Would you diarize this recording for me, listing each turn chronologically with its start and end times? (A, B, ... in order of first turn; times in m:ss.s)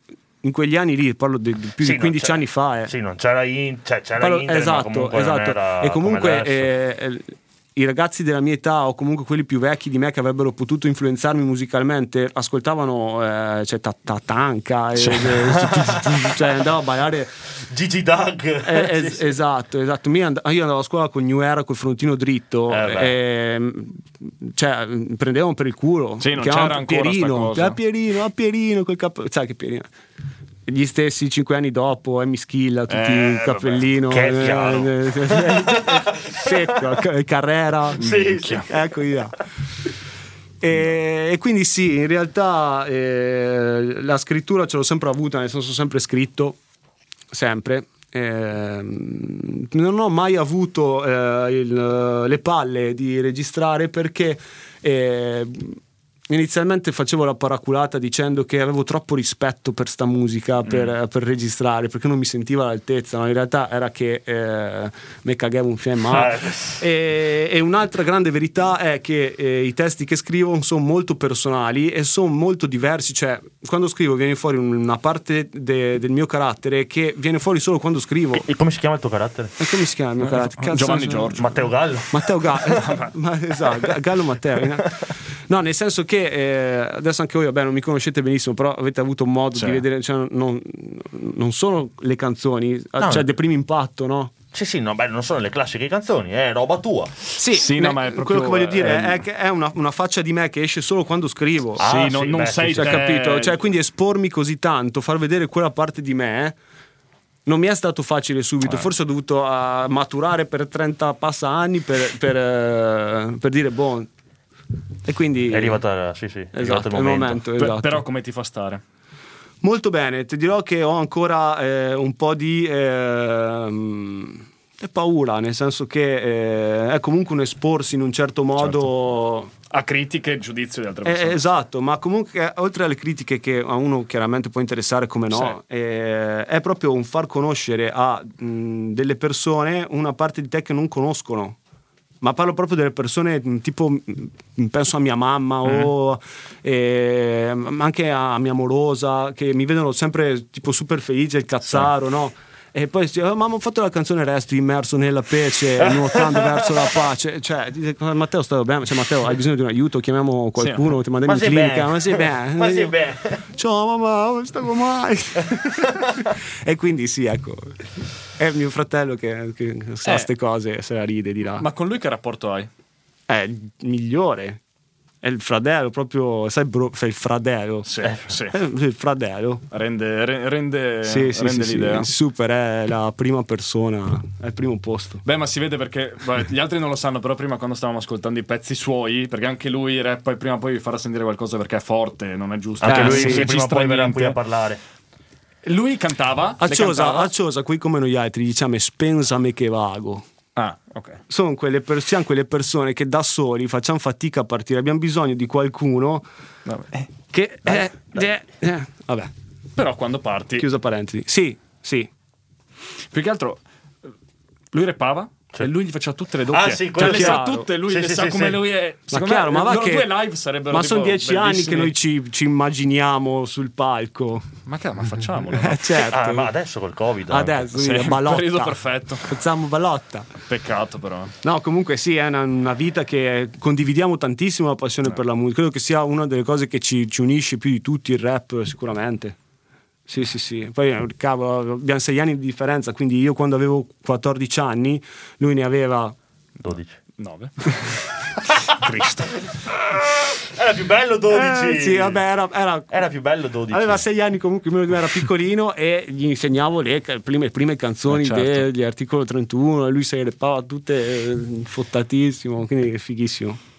0:00.4-0:02.9 A
0:01.8-0:06.7 B
0:04.2-0:17.3 A
0:15.0-0:15.7 C
0:17.6-0:19.3 B
0:18.6-0:29.9 A
0:22.7-0:23.2 B
0:26.2-0:27.8 C
0:30.6-0:39.4 A
0:32.9-0:33.9 C
0:34.1-0:36.5 B
0:38.0-0:38.7 C
0:38.0-0:38.7 B
0:40.6-0:46.6 A
0:47.3-1:18.4 A
1:00.6-1:00.9 C
1:06.1-1:06.8 B
1:18.3-1:19.5 B
1:19.6-1:21.4 A
1:20.2-1:21.5 C
1:21.3-1:22.8 B
1:22.1-1:34.3 A
1:22.7-1:23.1 C
1:29.5-1:29.8 C
1:33.0-1:33.3 B
1:34.5-1:37.2 B
1:37.3-1:41.9 A
1:37.5-1:39.2 C
1:41.8-1:43.0 B
1:41.8-1:43.6 C
1:42.7-1:46.6 A
1:47.4-1:54.1 A
1:55.0-1:55.8 A
1:55.5-1:57.4 B
1:56.5-1:58.0 A
1:57.6-1:58.8 C
1:59.6-2:09.5 A
2:09.7-2:11.4 C
2:11.0-2:21.6 A
2:22.2-2:42.9 A
2:25.6-2:25.9 C
2:35.8-2:36.7 B
2:40.6-2:40.9 C
2:41.2-2:43.4 B
2:43.5-2:51.7 A
2:50.0-2:50.3 C
2:51.6-2:52.7 C
2:53.3-2:54.6 A
2:55.2-2:59.6 A
2:57.8-2:58.6 C
2:59.7-3:02.1 C
3:01.0-3:05.2 A
3:05.2-3:14.4 C
3:12.8-3:14.8 B
3:12.8-3:13.5 A
3:15.6-3:17.3 C
3:16.6-3:20.2 A
3:20.6-3:21.2 C
3:21.3-3:26.2 A
3:26.6-3:27.1 C
3:27.3-3:29.3 A
3:27.7-3:28.2 B
3:29.8-3:30.7 C
3:30.6-3:32.1 A
3:33.1-3:34.1 C
3:34.7-3:41.9 C
3:36.5-3:38.6 B
3:36.9-3:37.7 A
3:39.1-3:40.1 A
3:40.7-3:44.5 A
3:44.6-3:45.9 C
3:45.5-3:46.5 A
3:46.0-3:47.6 B
3:47.3-3:50.3 A
3:47.7-3:49.3 C
3:50.5-3:51.3 C
3:51.4-3:59.4 A
4:00.1-4:06.1 A
4:06.6-4:07.0 B
4:07.2-4:09.5 C
4:10.3-4:12.2 B
4:11.3-4:13.0 A
4:12.9-4:14.0 B
4:13.7-4:23.6 A
4:18.1-4:18.7 C